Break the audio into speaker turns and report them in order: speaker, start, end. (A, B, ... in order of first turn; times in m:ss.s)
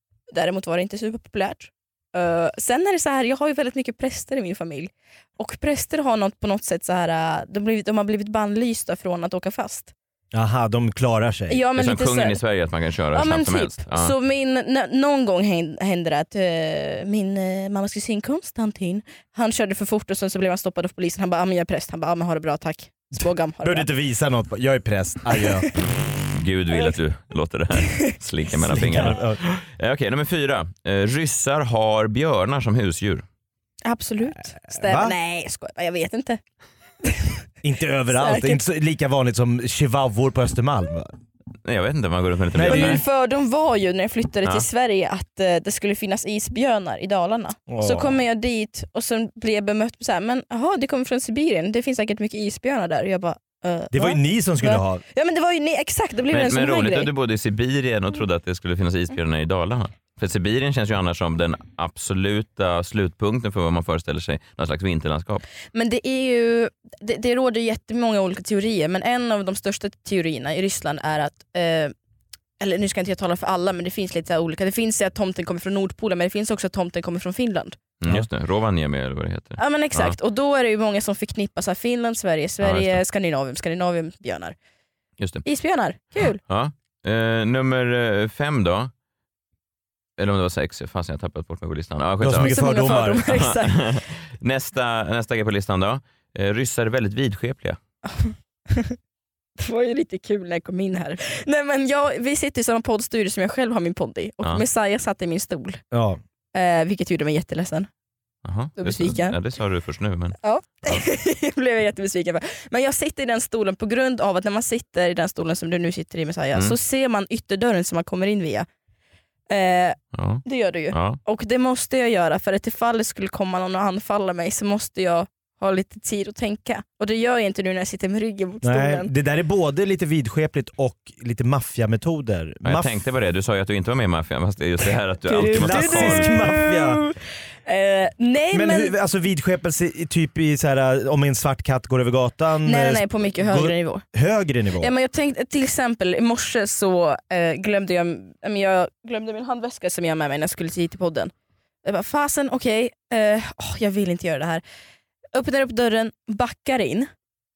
0:00.3-0:09.9 A
0:10.3-0:11.6 B
0:11.5-0:12.4 A
0:11.8-0:14.1 C
0:13.1-0:23.9 A
0:23.6-0:25.7 B
0:26.3-0:33.2 C
0:28.6-0:29.4 B
0:33.8-0:36.4 A
0:34.6-0:35.2 B
0:37.0-0:37.3 A
0:37.6-0:41.1 B
0:38.1-0:38.6 A
0:41.6-0:43.0 C
0:42.5-0:43.0 B
0:42.6-0:57.1 A
0:47.7-0:48.1 B
0:53.9-0:55.0 B
0:56.3-1:05.4 C
1:05.7-1:11.9 A
1:12.6-1:17.8 A
1:18.0-1:20.2 C
1:19.6-1:24.6 A
1:22.6-1:23.0 C
1:25.4-1:26.4 A
1:26.4-1:28.9 C
1:30.2-1:37.8 C
1:32.2-1:33.2 B
1:32.4-1:33.9 A
1:38.1-1:39.0 A
1:39.6-1:45.8 A
1:45.9-1:46.2 B
1:46.5-1:47.9 A
1:48.4-1:51.0 C
1:48.8-1:49.4 A
1:50.4-1:58.7 A
1:59.5-2:09.1 A
2:00.1-2:01.2 C
2:08.6-2:12.9 B
2:12.6-2:16.3 C
2:15.3-2:17.2 A
2:15.5-2:17.0 B
2:17.7-2:18.9 A
2:18.5-2:24.9 B
2:22.7-2:24.0 A
2:24.8-2:31.3 A
2:31.8-2:34.6 A
2:35.3-2:37.1 A